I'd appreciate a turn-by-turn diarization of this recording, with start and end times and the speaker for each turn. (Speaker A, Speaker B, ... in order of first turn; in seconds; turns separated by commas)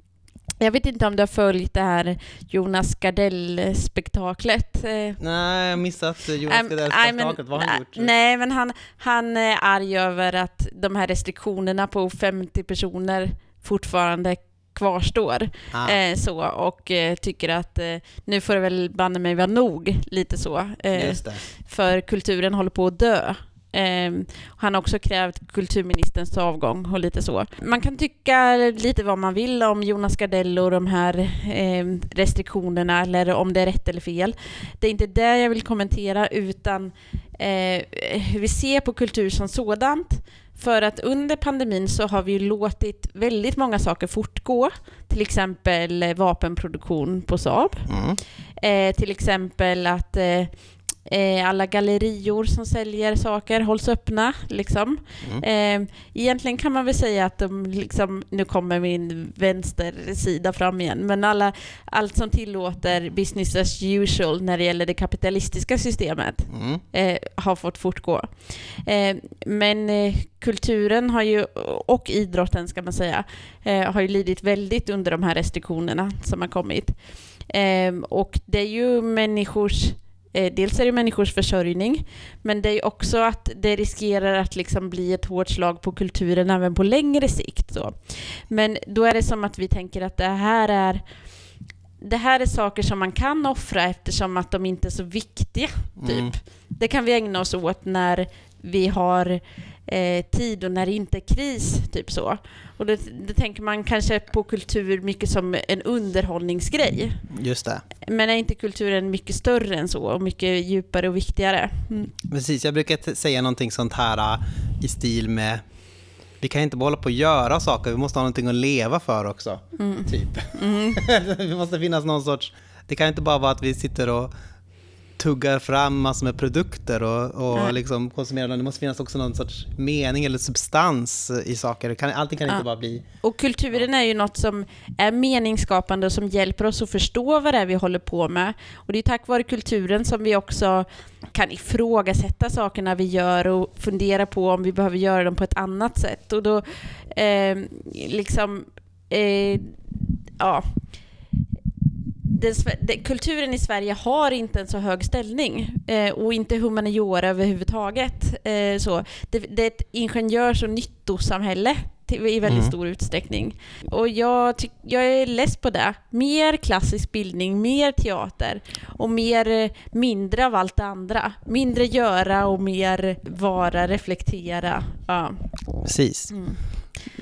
Speaker A: 0.6-5.2, Speaker B: 5.2-8.1, Speaker A: 6.5-91.2, Speaker B: 15.7-16.0, Speaker B: 20.9-21.5, Speaker B: 47.9-48.2, Speaker B: 66.5-66.8, Speaker A: 92.0-107.3, Speaker B: 96.0-96.4, Speaker B: 107.3-107.8, Speaker A: 108.0-112.1, Speaker B: 112.3-115.6, Speaker B: 116.4-124.3, Speaker A: 119.8-121.0, Speaker B: 125.2-133.1, Speaker A: 127.5-127.8, Speaker A: 133.2-151.1, Speaker A: 152.2-176.7, Speaker B: 162.5-162.7, Speaker B: 175.8-176.8